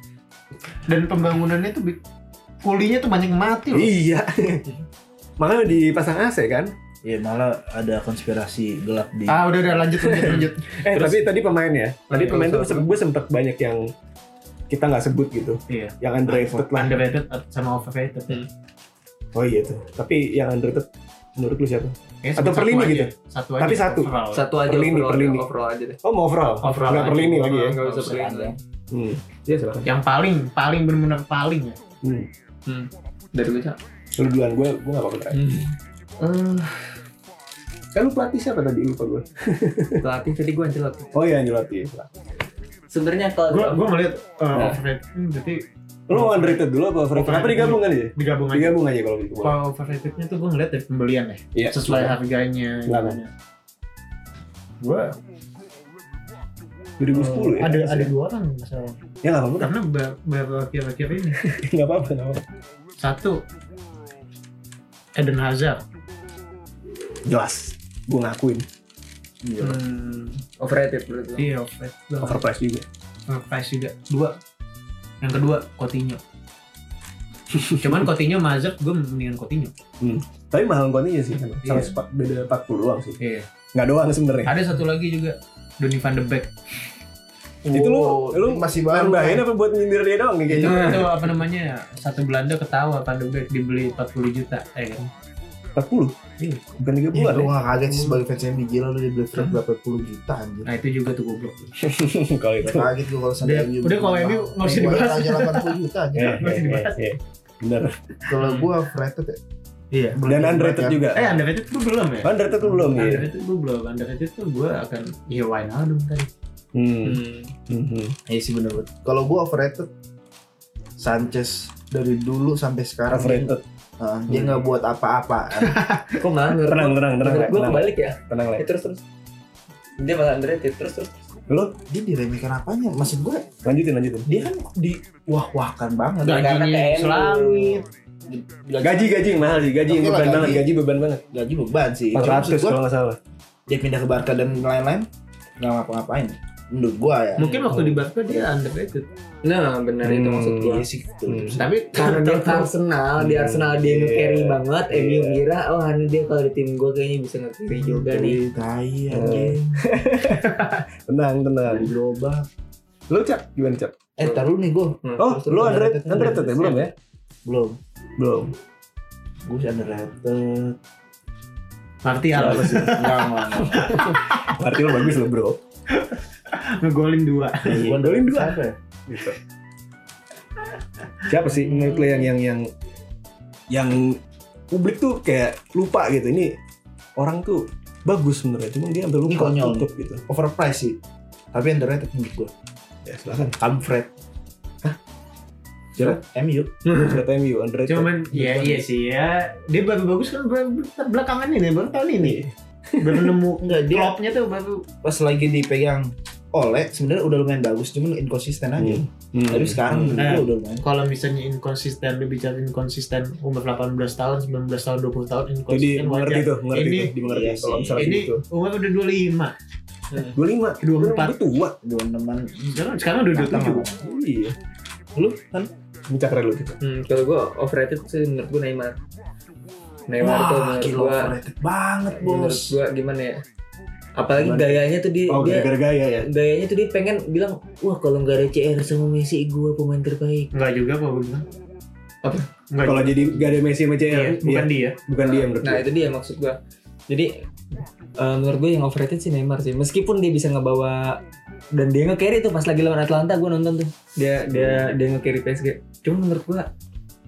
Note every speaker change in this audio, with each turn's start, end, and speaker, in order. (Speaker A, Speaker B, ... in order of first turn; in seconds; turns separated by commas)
Speaker A: 0.9-2.0, Speaker A: 2.6-4.0, Speaker B: 3.7-4.7, Speaker B: 5.4-6.7, Speaker C: 7.0-9.6, Speaker A: 9.3-11.3, Speaker B: 10.0-13.9, Speaker A: 12.1-12.8, Speaker D: 12.2-12.8, Speaker B: 14.7-17.0, Speaker A: 15.7-18.4, Speaker B: 19.3-25.4, Speaker A: 22.2-24.5, Speaker D: 24.3-26.0, Speaker B: 26.0-27.8, Speaker A: 26.6-27.6, Speaker D: 26.6-28.6, Speaker C: 27.8-28.6, Speaker B: 28.9-29.9, Speaker A: 29.9-31.8, Speaker B: 32.0-32.3, Speaker D: 32.7-33.8, Speaker B: 34.2-35.5, Speaker D: 35.3-35.7, Speaker B: 37.9-40.0, Speaker D: 40.0-41.1, Speaker B: 41.1-42.1, Speaker D: 42.9-43.9, Speaker A: 43.5-46.6, Speaker B: 44.5-44.8, Speaker B: 46.1-49.6, Speaker A: 47.1-48.8, Speaker A: 49.4-53.3, Speaker B: 51.5-52.1, Speaker B: 52.9-53.2, Speaker A: 54.8-55.2, Speaker B: 57.0-58.1, Speaker A: 57.1-59.0, Speaker B: 59.2-59.7, Speaker A: 59.6-61.4, Speaker B: 61.3-62.4, Speaker A: 63.0-63.4, Speaker A: 65.2-65.8, Speaker B: 67.3-68.7, Speaker C: 69.4-69.8, Speaker A: 69.6-70.4, Speaker D: 70.6-71.5, Speaker A: 71.4-72.4, Speaker B: 72.2-72.8, Speaker A: 73.3-74.4, Speaker A: 75.2-76.2, Speaker B: 77.5-78.0, Speaker A: 77.8-79.7, Speaker B: 80.0-83.2, Speaker A: 81.6-82.0, Speaker A: 83.2-83.5, Speaker B: 83.7-84.5, Speaker A: 84.5-86.5, Speaker C: 87.7-89.5, Speaker B: 87.7-91.3, Speaker A: 90.5-95.1, Speaker B: 95.8-98.2, Speaker C: 97.1-100.7, Speaker A: 100.7-101.7, Speaker B: 101.8-102.9, Speaker C: 102.6-106.4, Speaker A: 103.4-105.8, Speaker B: 106.2-108.0, Speaker A: 106.4-107.0, Speaker C: 108.3-109.4, Speaker D: 108.4-108.7, Speaker A: 109.9-110.5, Speaker C: 110.2-111.0, Speaker B: 110.2-111.4, Speaker A: 111.1-116.3, Speaker B: 112.2-113.3, Speaker B: 116.7-118.2, Speaker D: 117.0-117.5, Speaker C: 118.3-119.9, Speaker C: 121.0-125.8, Speaker B: 123.1-123.6, Speaker B: 124.3-124.6, Speaker A: 125.6-126.2, Speaker D: 126.2-129.0, Speaker B: 126.7-128.7, Speaker D: 130.0-131.1, Speaker B: 131.5-131.7, Speaker C: 131.9-133.5, Speaker B: 133.6-134.3, Speaker C: 134.3-136.7, Speaker A: 136.2-137.8, Speaker D: 136.2-137.8, Speaker C: 138.2-140.7, Speaker B: 138.8-141.2, Speaker C: 141.3-142.8, Speaker B: 142.1-143.2, Speaker C: 143.7-145.1, Speaker C: 145.6-147.7, Speaker A: 147.4-149.1, Speaker B: 147.7-148.1, Speaker D: 149.4-150.8, Speaker B: 150.0-151.6, Speaker C: 150.6-151.7, Speaker A: 151.6-152.7, Speaker D: 151.9-158.4, Speaker B: 153.2-155.4, Speaker C: 157.7-159.9, Speaker B: 159.1-161.9, Speaker A: 160.4-160.8, Speaker C: 161.7-162.5, Speaker B: 163.1-164.0, Speaker C: 164.2-166.4, Speaker D: 165.0-166.9, Speaker B: 165.2-166.9, Speaker C: 167.4-167.8, Speaker B: 168.2-168.5, Speaker C: 169.5-170.8, Speaker A: 172.0-175.1, Speaker C: 172.3-174.0, Speaker B: 172.4-172.8, Speaker B: 173.7-175.6, Speaker A: 175.9-178.0, Speaker B: 177.7-179.4, Speaker C: 177.7-178.8, Speaker B: 181.3-182.7, Speaker B: 183.7-184.2, Speaker B: 184.7-186.6, Speaker B: 187.2-190.2, Speaker C: 189.2-191.0, Speaker C: 191.5-192.5, Speaker B: 193.1-193.6, Speaker C: 193.6-194.1, Speaker C: 196.0-196.7, Speaker B: 196.9-198.9, Speaker A: 197.9-202.4, Speaker B: 202.2-203.3, Speaker A: 203.0-204.8, Speaker C: 203.6-204.2, Speaker C: 205.0-210.9, Speaker B: 208.8-210.4, Speaker A: 210.2-217.1, Speaker B: 215.7-218.4, Speaker C: 217.2-218.2, Speaker A: 217.9-219.6, Speaker B: 220.3-221.8, Speaker A: 220.8-221.4, Speaker C: 221.8-224.1, Speaker A: 222.7-223.8, Speaker B: 224.0-224.6, Speaker C: 225.2-225.7, Speaker B: 226.1-226.8, Speaker D: 226.8-229.0, Speaker D: 230.1-231.3, Speaker C: 230.2-232.8, Speaker D: 232.1-233.4, Speaker D: 234.2-235.7, Speaker B: 235.3-236.3, Speaker D: 236.2-240.5, Speaker A: 240.5-241.4, Speaker A: 242.7-245.0, Speaker B: 242.8-245.9, Speaker D: 245.2-246.6, Speaker D: 247.1-251.2, Speaker D: 251.7-256.7, Speaker B: 254.5-254.9